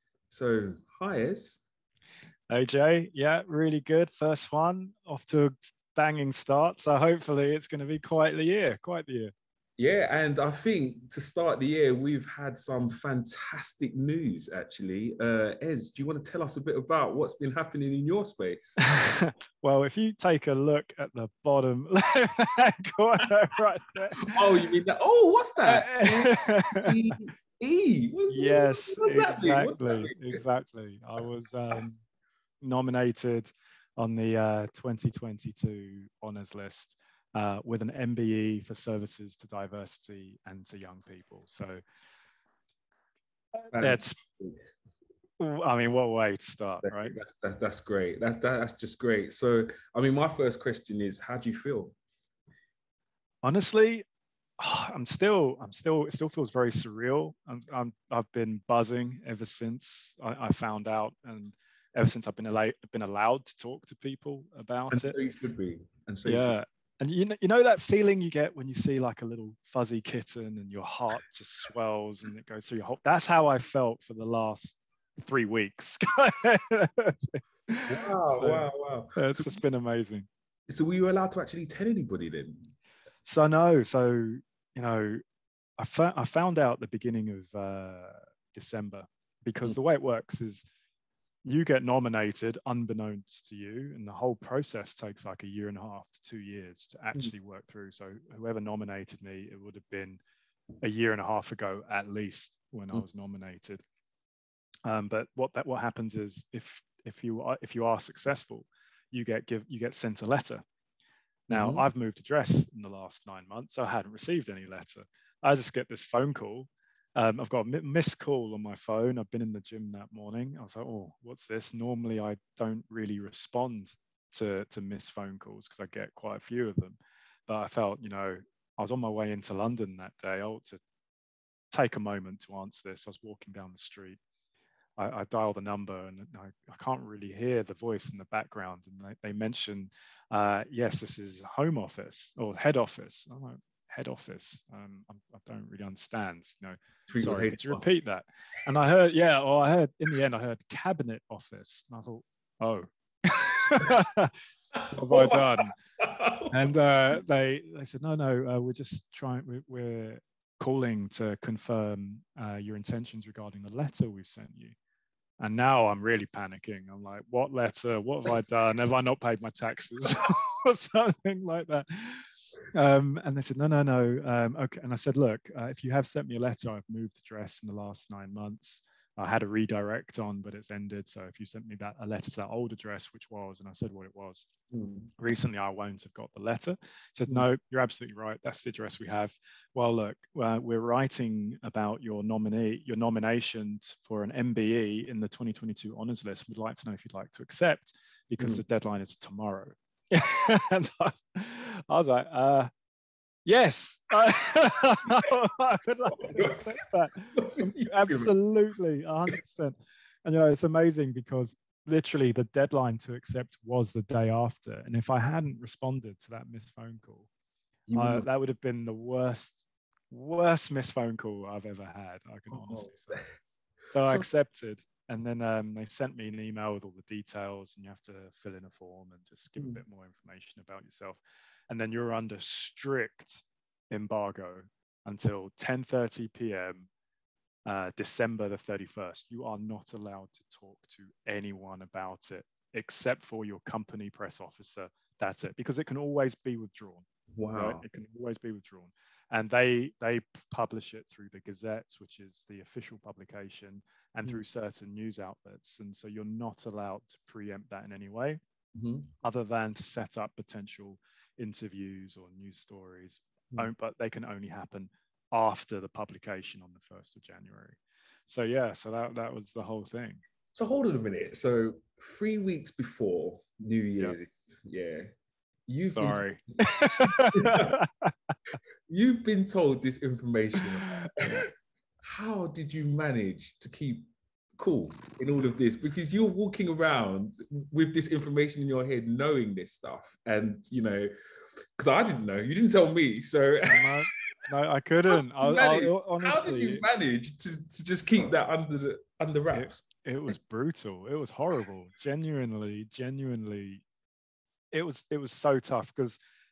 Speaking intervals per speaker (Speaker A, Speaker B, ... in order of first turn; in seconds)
Speaker A: 0.3-1.6, 9.8-18.8, 24.3-30.4, 43.7-44.6, 46.8-51.9, 64.9-66.5, 77.9-79.6, 80.7-82.7, 111.5-111.8, 147.1-147.8, 154.9-156.6, 184.7-185.1, 206.2-206.7, 207.3-208.3, 217.9-218.2, 222.5-223.3, 247.3-247.8, 258.7-259.1, 270.5-275.1, 275.7-276.2, 277.3-277.8, 278.9-281.5, 282.0-291.1, 291.8-294.0, 295.4-299.8
Speaker B: 2.5-9.3, 18.8-24.4, 25.6-26.9, 28.3-32.0, 32.6-41.8, 43.7-44.1, 45.4-47.2, 53.4-54.0, 54.6-65.3, 66.2-80.3, 83.2-85.2, 85.8-90.7, 91.4-100.2, 100.8-103.8, 104.8-110.6, 111.5-130.8, 131.7-134.2, 135.0-154.3, 154.9-155.7, 156.5-164.7, 165.4-184.5, 185.2-202.7, 203.4-217.3, 217.9-223.2, 223.9-236.9, 237.6-258.4, 259.2-270.2, 275.9-278.1, 280.6-281.3, 293.7-296.9, 299.5-303.8, 304.7-306.2